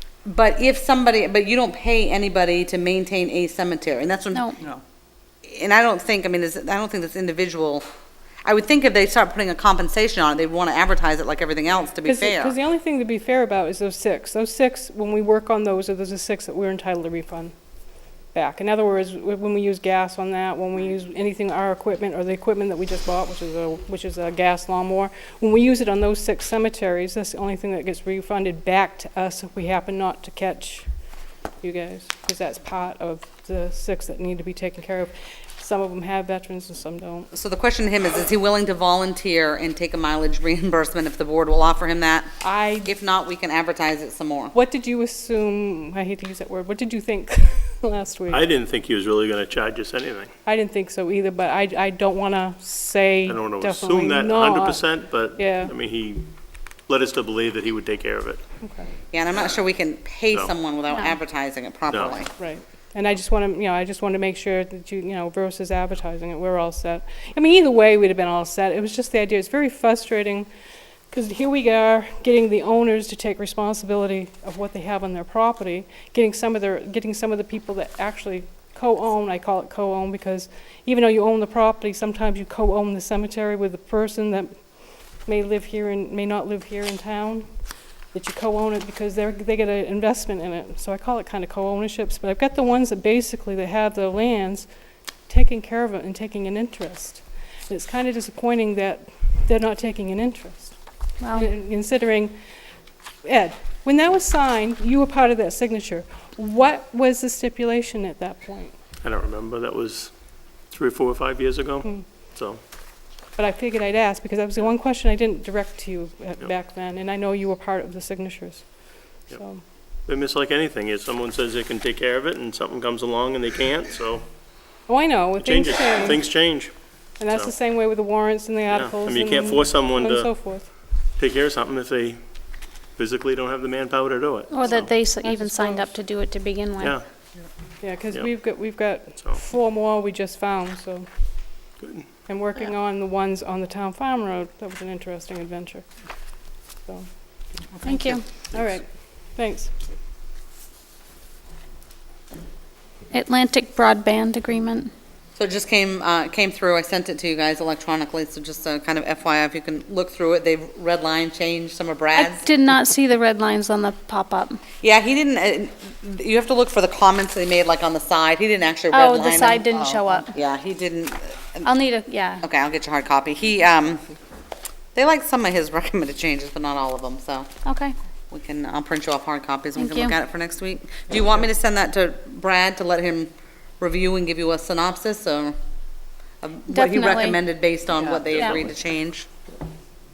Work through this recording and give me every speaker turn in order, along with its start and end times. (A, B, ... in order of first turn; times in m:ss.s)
0:00.3-0:04.8 A
0:05.4-0:07.9 A
0:08.4-0:12.6 A
0:12.0-0:17.5 B
0:18.3-0:30.9 B
0:31.6-0:37.3 B
0:37.3-0:42.3 A
0:42.4-0:42.9 B
0:42.8-0:44.5 A
0:44.5-0:48.4 B
0:48.3-0:50.3 C
0:50.4-0:55.7 B
0:53.3-0:56.3 C
0:56.9-0:58.4 C
0:58.6-0:58.9 B
0:59.1-1:02.3 A
1:01.9-1:02.2 C
1:02.4-1:10.5 B
1:11.1-1:24.5 B
1:25.3-1:27.5 B
1:28.1-1:34.7 B
1:35.3-1:40.8 B
1:41.2-1:41.5 D
1:41.3-1:42.4 B
1:43.2-1:48.8 B
1:49.0-1:50.1 C
1:50.7-1:52.6 C
1:53.4-1:59.6 B
2:00.1-2:04.3 C
2:04.9-2:06.3 B
2:05.4-2:07.5 C
2:07.2-2:10.7 B
2:08.7-2:10.5 C
2:11.2-2:12.2 C
2:13.0-2:14.9 C
2:14.5-2:17.0 D
2:14.6-2:15.9 B
2:16.8-2:17.0 C
2:17.8-2:21.1 B
2:18.1-2:18.4 C
2:21.8-2:22.1 C
2:22.3-2:25.9 B
2:26.8-2:27.1 B
2:27.8-2:28.2 D
2:27.8-2:29.7 B
2:28.5-2:28.8 C
2:33.1-2:34.9 D
2:35.4-2:42.5 A
2:42.2-2:44.6 D
2:44.8-2:51.7 A
2:48.9-2:50.3 D
2:51.6-2:52.4 D
2:52.4-2:54.1 A
2:55.0-2:57.5 A
2:57.6-2:58.0 D
2:58.3-3:05.6 A
2:59.8-3:00.1 D
3:06.4-3:09.3 A
3:06.7-3:07.4 D
3:08.3-3:08.6 C